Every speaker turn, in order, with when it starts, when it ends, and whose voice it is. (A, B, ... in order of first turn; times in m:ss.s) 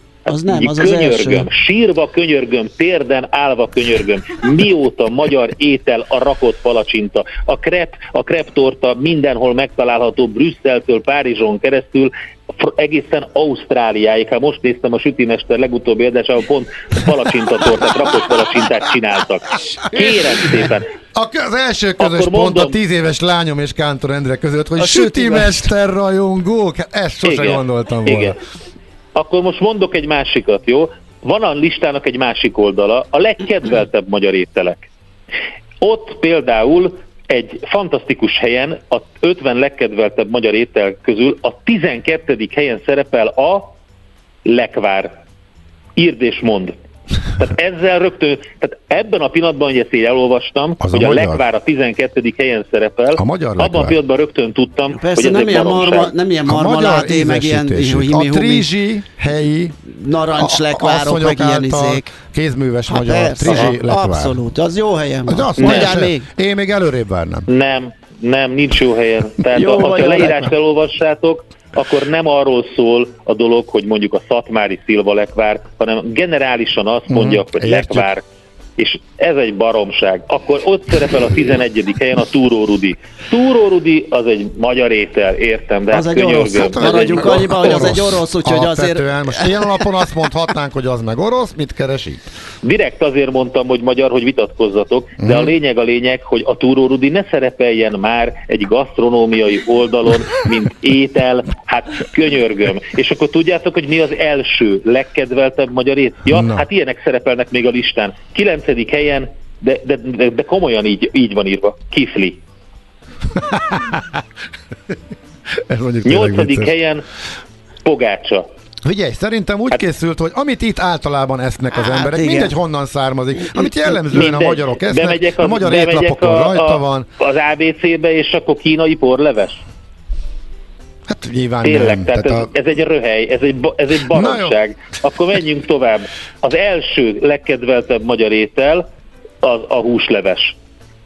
0:00.3-0:01.5 A
0:00.4-0:20.9 B
0:19.9-0:28.4 C
0:22.0-0:22.8 B
0:24.8-0:25.2 A
0:27.2-0:28.4 B
0:29.2-0:34.9 B
0:35.8-0:43.8 B
0:44.4-0:45.1 B
0:46.0-0:46.7 B
0:47.4-0:56.1 B
0:50.8-0:51.4 C
0:53.2-0:54.0 C
0:54.9-0:58.7 A
0:56.4-0:59.8 C
0:59.9-1:02.1 A
1:00.4-1:04.4 C
1:02.9-1:06.3 A
1:05.3-1:07.5 C
1:05.6-1:05.9 B
1:07.5-1:18.2 B
1:09.4-1:10.5 A
1:17.1-1:18.1 C
1:18.8-1:27.9 B
1:25.9-1:29.7 A
1:26.4-1:32.2 C
1:32.6-1:52.4 B
1:35.2-1:35.5 C
1:46.3-1:46.6 C
1:53.3-1:54.2 C
1:55.5-1:56.7 C
1:56.0-1:57.0 B
1:57.8-1:58.4 B
1:58.8-2:07.1 C
2:01.7-2:02.6 A
2:04.1-2:09.6 B
2:11.1-2:12.5 C
2:11.6-2:18.9 B
2:14.1-2:14.6 C
2:19.4-2:20.6 B